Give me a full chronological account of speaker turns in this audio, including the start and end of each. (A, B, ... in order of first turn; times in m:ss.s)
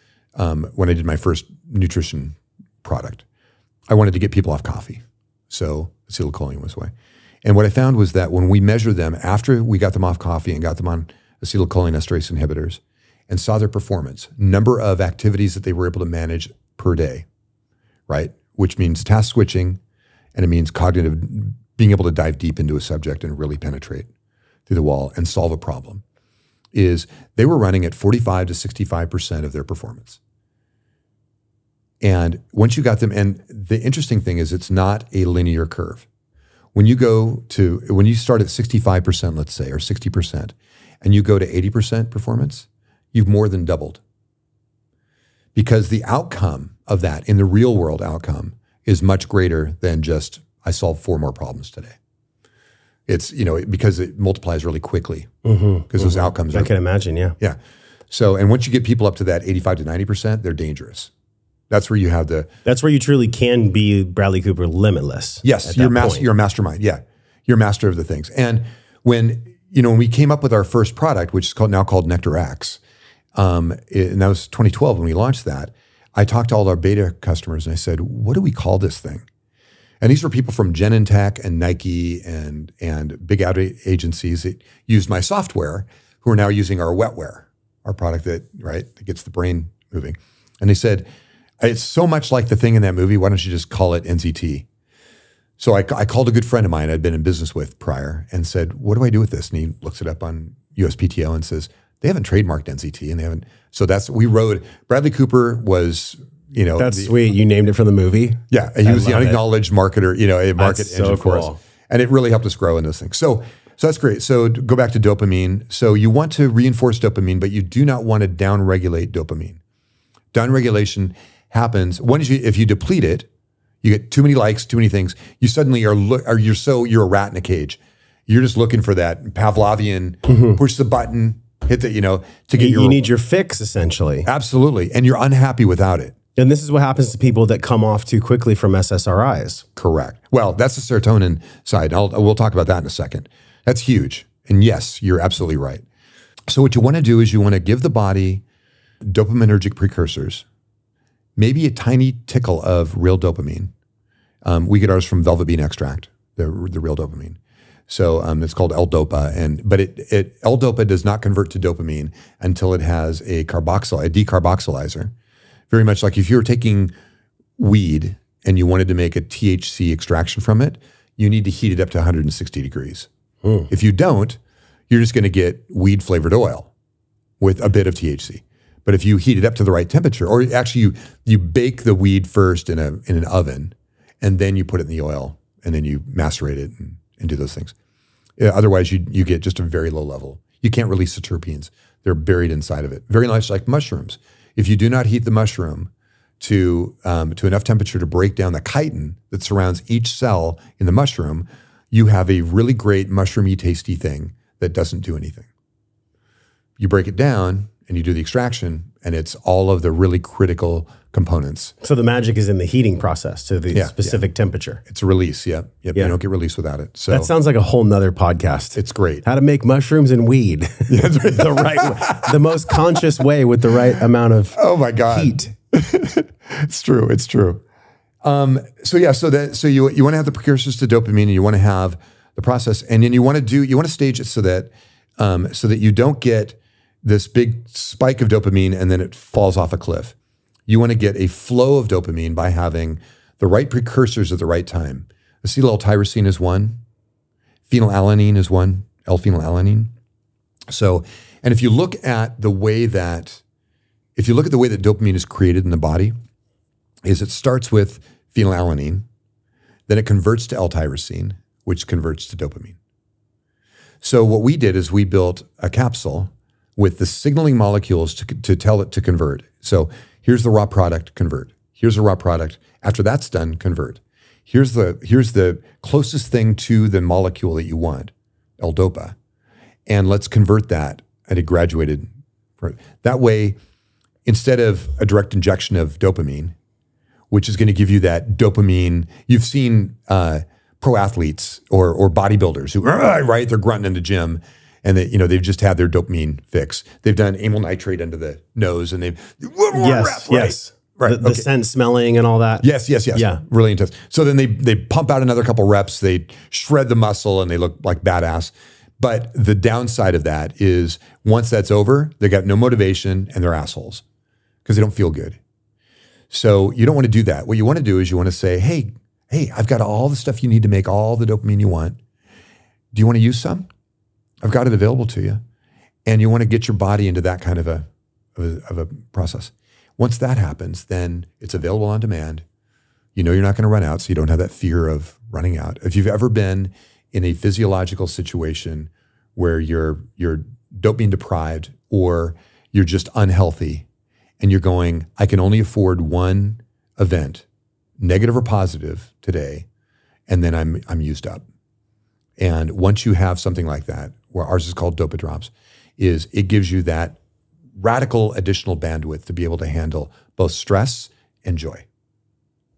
0:00.4-0:03.2 A
0:03.9-0:06.9 A
0:07.4-0:17.2 A
0:18.1-0:19.8 A
0:20.3-0:24.1 A
0:24.7-0:26.0 A
0:26.7-0:30.2 A
0:32.0-0:36.1 A
0:36.7-0:44.0 A
0:45.5-0:52.0 A
0:53.1-0:55.3 A
0:55.4-0:57.3 B
0:55.9-0:56.7 A
0:58.1-1:01.1 A
1:01.7-1:02.5 A
1:02.6-1:06.3 B
1:05.4-1:12.8 A
1:13.4-1:19.2 A
1:20.0-1:31.1 A
1:31.6-1:34.6 A
1:35.6-1:47.1 A
1:46.8-1:49.4 B
1:48.5-1:59.6 A
1:50.6-1:51.6 B
2:00.3-2:03.3 A
2:03.8-2:13.0 A
2:10.3-2:10.6 B
2:12.6-2:14.3 B
2:14.2-2:16.1 A
2:16.4-2:19.6 B
2:19.8-2:25.8 A
2:26.5-2:28.4 A
2:29.0-2:30.4 A
2:31.4-2:33.7 A
2:34.4-2:45.1 A
2:45.7-2:46.9 A
2:47.6-2:53.1 A
2:53.4-2:53.7 B
2:53.7-2:56.7 A
2:57.4-3:07.7 A
3:08.4-3:25.5 A
3:26.8-3:31.7 A
3:31.8-3:34.8 B
3:33.7-3:34.2 A
3:34.9-3:37.3 A
3:37.1-3:45.5 B
3:38.8-3:39.2 A
3:40.9-3:42.6 A
3:44.6-3:47.6 A
3:48.2-4:00.1 A
4:00.7-4:06.8 A
4:07.7-4:09.9 A
4:10.7-4:13.4 A
4:14.2-4:16.1 A
4:17.0-4:19.0 A
4:19.9-4:22.8 A
4:24.0-4:39.2 A
4:39.9-4:43.6 A
4:44.2-4:46.6 A
4:47.3-5:01.4 A
4:59.7-5:03.4 B
5:02.6-5:14.0 A
5:14.6-5:15.4 A
5:16.3-5:22.0 A
5:22.9-5:23.7 A
5:24.4-5:25.4 A
5:26.0-5:32.4 A
5:33.1-5:43.8 A
5:44.4-5:47.4 A
5:48.0-5:49.7 A
5:50.3-5:51.4 A
5:52.4-5:57.2 A
5:57.8-6:01.8 A